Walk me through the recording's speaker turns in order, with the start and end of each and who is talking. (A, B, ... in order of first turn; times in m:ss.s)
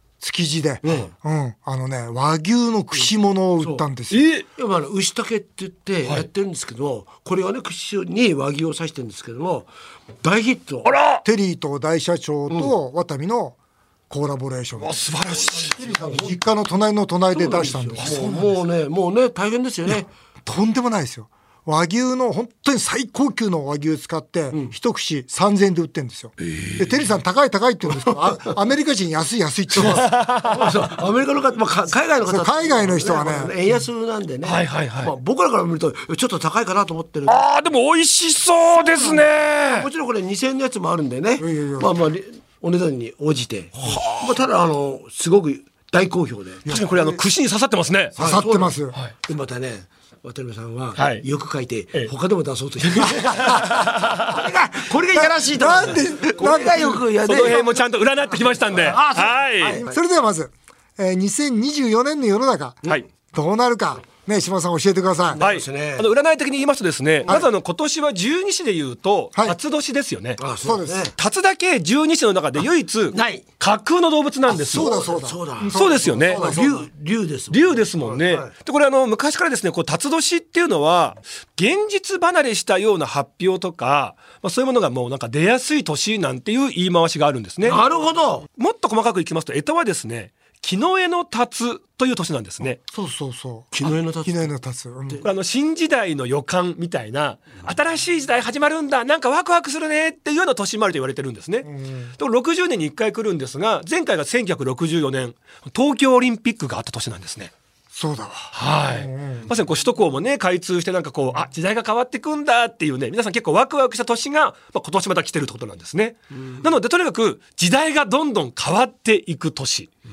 0:00.2-0:04.3 A
0:00.8-0:01.1 B
0:04.1-0:04.4 C
0:04.6-0:09.7 B
0:10.2-0:10.9 B
0:10.8-0:11.2 C
0:11.2-0:13.6 A
0:14.1-0:15.1 A
0:14.8-0:16.0 C
0:15.3-0:16.4 B
0:15.8-0:18.6 A
0:17.3-0:20.1 B
0:18.0-0:18.3 C
0:20.4-0:30.1 A
0:26.4-0:26.9 C
0:29.8-0:30.7 C
0:29.8-0:37.4 B
0:32.3-0:33.5 A
0:34.4-0:35.1 C
0:37.3-0:39.9 C
0:38.7-0:46.7 B
0:41.4-0:41.9 A
0:43.8-0:44.4 C
0:46.6-0:47.2 A
0:46.7-0:48.2 C
0:48.2-0:57.7 B
0:48.2-0:49.0 A
0:51.0-0:51.2 C
0:52.8-0:54.4 C
0:55.1-0:57.0 A
0:57.2-0:59.8 C
0:58.7-0:59.9 B
0:59.2-1:02.8 A
1:03.3-1:05.4 A
1:05.3-1:06.1 B
1:05.4-1:10.4 C
1:10.4-1:11.1 B
1:10.6-1:11.1 A
1:11.2-1:15.0 C
1:13.1-1:13.4 B
1:14.5-1:18.5 B
1:14.6-1:16.9 A
1:15.7-1:16.5 C
1:17.5-1:27.8 C
1:27.6-1:28.4 B
1:28.6-1:32.8 C
1:32.9-1:35.2 A
1:33.7-1:34.4 B
1:35.2-1:47.5 C
1:41.6-1:42.1 A
1:47.9-1:49.5 A
1:48.5-1:59.9 C